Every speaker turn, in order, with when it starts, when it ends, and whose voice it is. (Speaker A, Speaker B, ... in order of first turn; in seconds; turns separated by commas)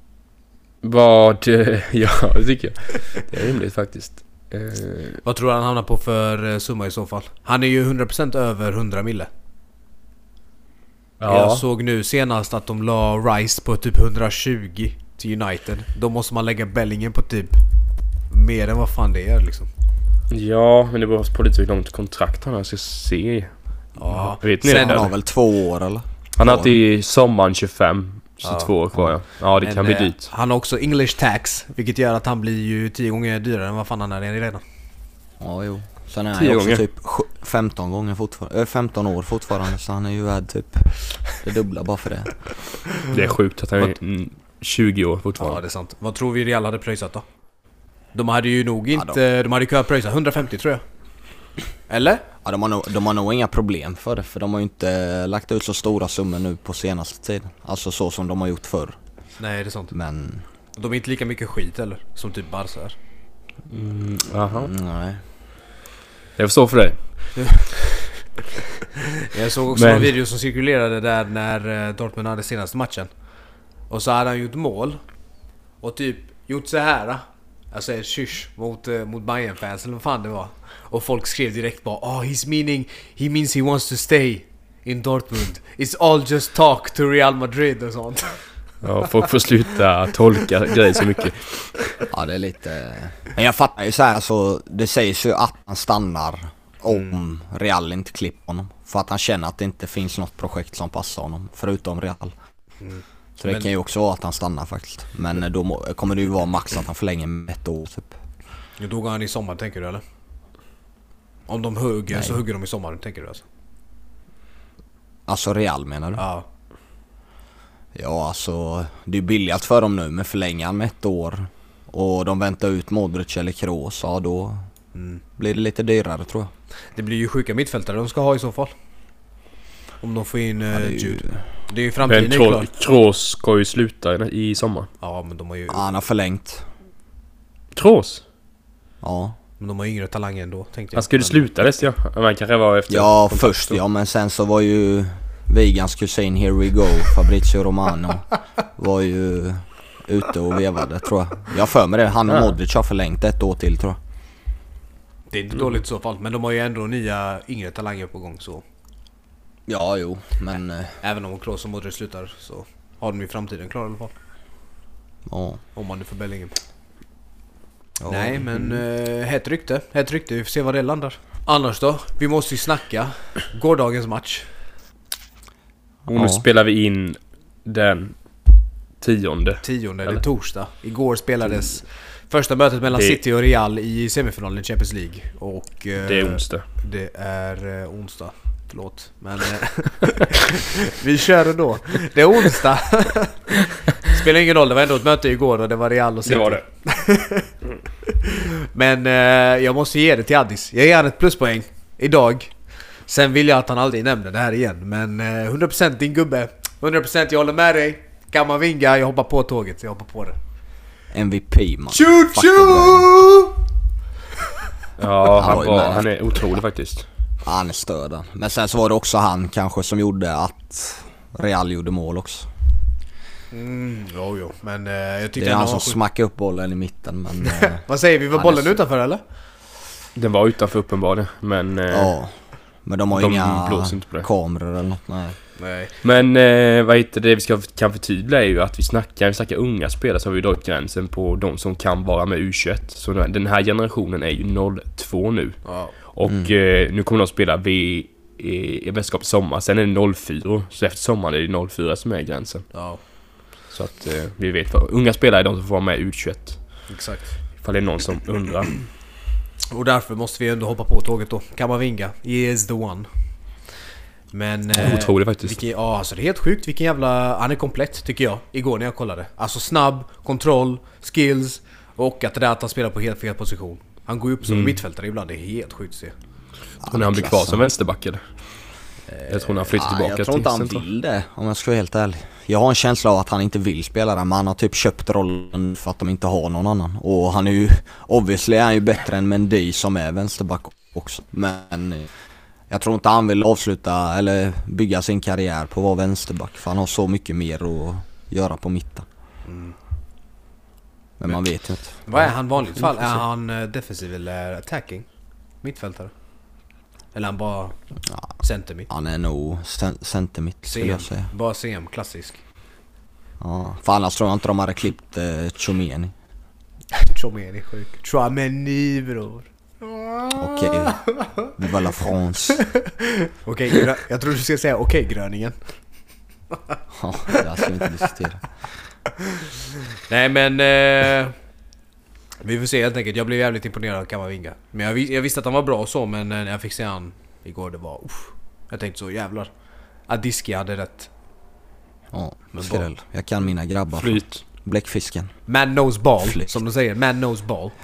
Speaker A: 0.8-5.2, Speaker B: 5.2-9.3, Speaker A: 11.2-11.6, Speaker B: 11.3-17.6, Speaker B: 18.3-19.7, Speaker A: 20.3-23.5, Speaker B: 24.0-25.0, Speaker A: 24.1-25.1, Speaker C: 24.6-26.7, Speaker A: 26.4-30.2, Speaker B: 28.4-28.7, Speaker B: 29.6-34.6, Speaker C: 35.4-42.4, Speaker A: 36.3-36.8, Speaker A: 43.1-45.6, Speaker B: 45.4-47.2, Speaker B: 48.1-50.8, Speaker B: 51.9-52.2, Speaker C: 52.4-59.0, Speaker B: 59.4-59.9, Speaker C: 59.9-60.4, Speaker B: 60.8-63.0, Speaker A: 63.7-64.7, Speaker C: 64.6-65.2, Speaker A: 66.4-67.0, Speaker B: 69.2-73.1, Speaker A: 69.7-70.1, Speaker B: 73.9-75.0, Speaker B: 75.8-88.4, Speaker A: 88.8-91.8, Speaker C: 92.1-102.3, Speaker B: 102.8-103.7, Speaker C: 103.4-108.1, Speaker B: 108.8-110.0, Speaker B: 111.5-113.4, Speaker C: 112.1-112.4, Speaker C: 115.3-116.2, Speaker B: 116.2-116.5, Speaker C: 117.9-124.6, Speaker B: 124.9-125.2, Speaker C: 125.4-126.5, Speaker B: 126.9-128.7, Speaker B: 130.0-132.7, Speaker C: 130.7-131.4, Speaker A: 132.1-134.9, Speaker B: 135.0-135.8, Speaker C: 135.7-136.7, Speaker A: 137.7-138.2, Speaker C: 139.0-139.3, Speaker B: 139.6-141.4, Speaker A: 140.9-143.8, Speaker C: 142.9-154.0, Speaker B: 155.3-158.6, Speaker C: 159.7-160.9, Speaker B: 161.0-164.1, Speaker C: 165.3-165.6, Speaker B: 165.8-166.5, Speaker C: 168.0-168.8, Speaker B: 168.1-174.4, Speaker C: 176.1-176.4, Speaker A: 176.1-178.1, Speaker A: 179.0-180.2, Speaker B: 179.6-197.5, Speaker A: 182.9-183.2, Speaker A: 186.0-186.6, Speaker A: 196.2-196.6, Speaker B: 198.1-202.5, Speaker B: 203.1-210.4, Speaker C: 211.1-213.1, Speaker B: 211.9-213.6, Speaker A: 215.0-217.0, Speaker C: 215.3-216.1, Speaker C: 217.4-222.5, Speaker B: 223.5-226.0, Speaker C: 225.4-227.8, Speaker B: 227.4-229.2, Speaker C: 228.3-228.7, Speaker A: 230.2-232.1, Speaker C: 231.9-232.3, Speaker C: 232.8-235.4, Speaker A: 233.1-234.3, Speaker B: 235.6-235.9, Speaker A: 236.0-245.6, Speaker B: 245.6-245.9, Speaker A: 246.1-252.6, Speaker C: 246.3-246.5, Speaker B: 252.7-253.0, Speaker A: 253.7-256.6, Speaker B: 256.9-257.4, Speaker A: 257.6-258.8, Speaker B: 259.7-263.1, Speaker B: 264.3-276.1, Speaker A: 264.8-265.6, Speaker A: 274.4-274.8, Speaker C: 276.8-277.6, Speaker A: 276.9-278.2, Speaker A: 279.3-280.8, Speaker C: 279.7-292.1, Speaker C: 292.7-299.1, Speaker B: 299.4-299.7, Speaker C: 301.2-302.3, Speaker B: 302.1-305.1, Speaker B: 305.6-306.1, Speaker B: 307.1-307.7, Speaker B: 308.4-308.9, Speaker C: 308.9-311.3, Speaker B: 310.7-312.4, Speaker C: 313.4-316.1, Speaker B: 316.9-321.5, Speaker C: 320.4-321.0, Speaker C: 321.6-322.6, Speaker B: 322.5-325.6, Speaker C: 326.9-328.4, Speaker B: 329.9-331.3, Speaker B: 332.4-339.5, Speaker B: 340.1-341.1, Speaker C: 342.1-345.3, Speaker B: 342.5-342.9, Speaker A: 344.0-344.4, Speaker B: 345.5-347.7, Speaker C: 346.2-346.5